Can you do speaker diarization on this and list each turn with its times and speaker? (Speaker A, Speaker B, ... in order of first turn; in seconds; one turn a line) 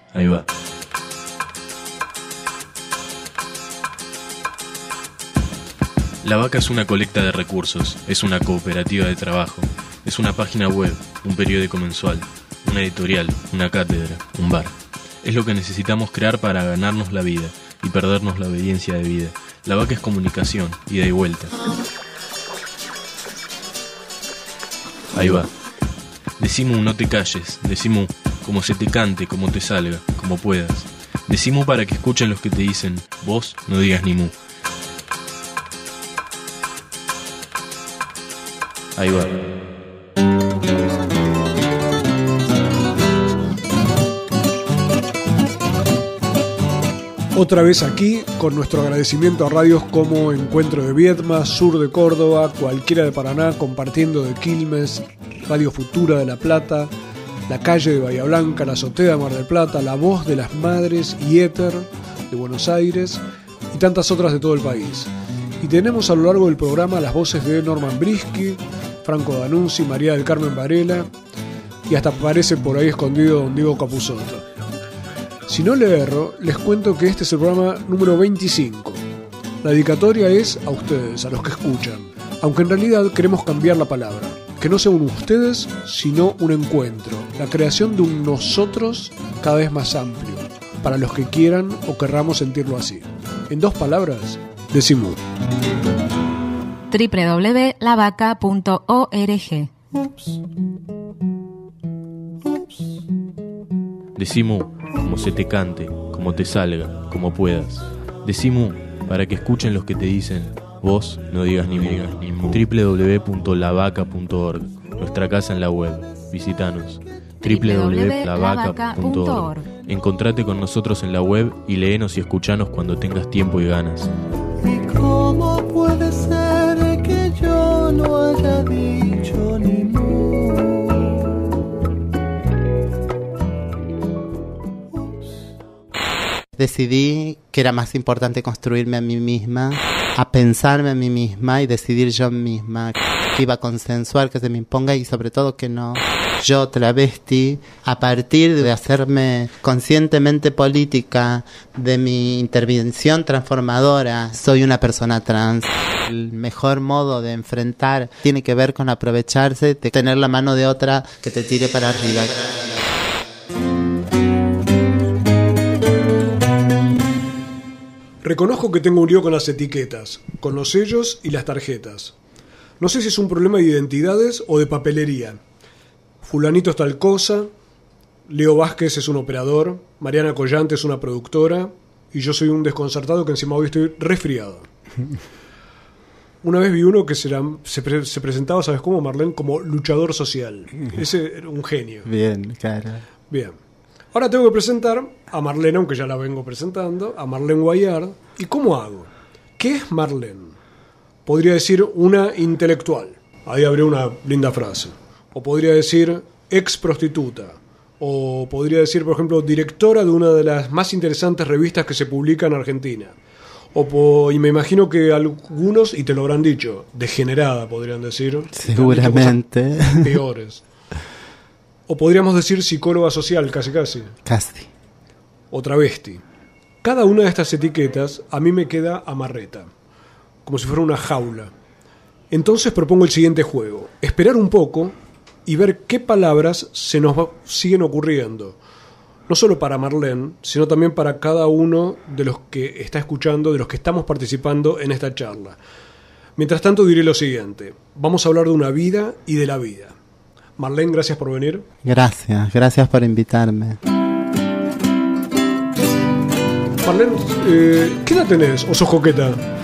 Speaker A: 0.1-0.5
Speaker A: 6.2-21.5
Speaker A: 25.1-25.5
Speaker A: 26.4-34.4
Speaker A: 39.0-39.5
Speaker B: 47.3-56.9
Speaker B: 57.5-71.1
Speaker B: 71.9-74.4
Speaker B: 75.5-79.0
Speaker B: 79.6-95.2
Speaker C: 96.9-99.7
Speaker A: 104.2-124.1
Speaker C: 117.4-119.7
Speaker D: 124.6-131.1
Speaker D: 135.0-135.3
Speaker E: 136.6-163.1
Speaker B: 168.2-172.1
Speaker B: 172.8-175.4
Speaker B: 176.2-177.5
Speaker B: 178.3-184.7
Speaker B: 186.4-192.1
Speaker E: 192.1-193.0
Speaker B: 193.3-193.6
Speaker B: 194.1-200.6
Speaker B: 201.3-213.1
Speaker B: 213.8-220.6
Speaker E: 218.6-220.0
Speaker B: 221.9-224.1
Speaker E: 224.2-224.7
Speaker B: 225.5-226.2
Speaker B: 226.8-229.7
Speaker B: 230.4-231.5
Speaker B: 232.3-238.6
Speaker B: 239.3-245.6
Speaker B: 246.4-249.9
Speaker B: 250.6-251.7
Speaker E: 251.8-253.8
Speaker B: 256.8-259.4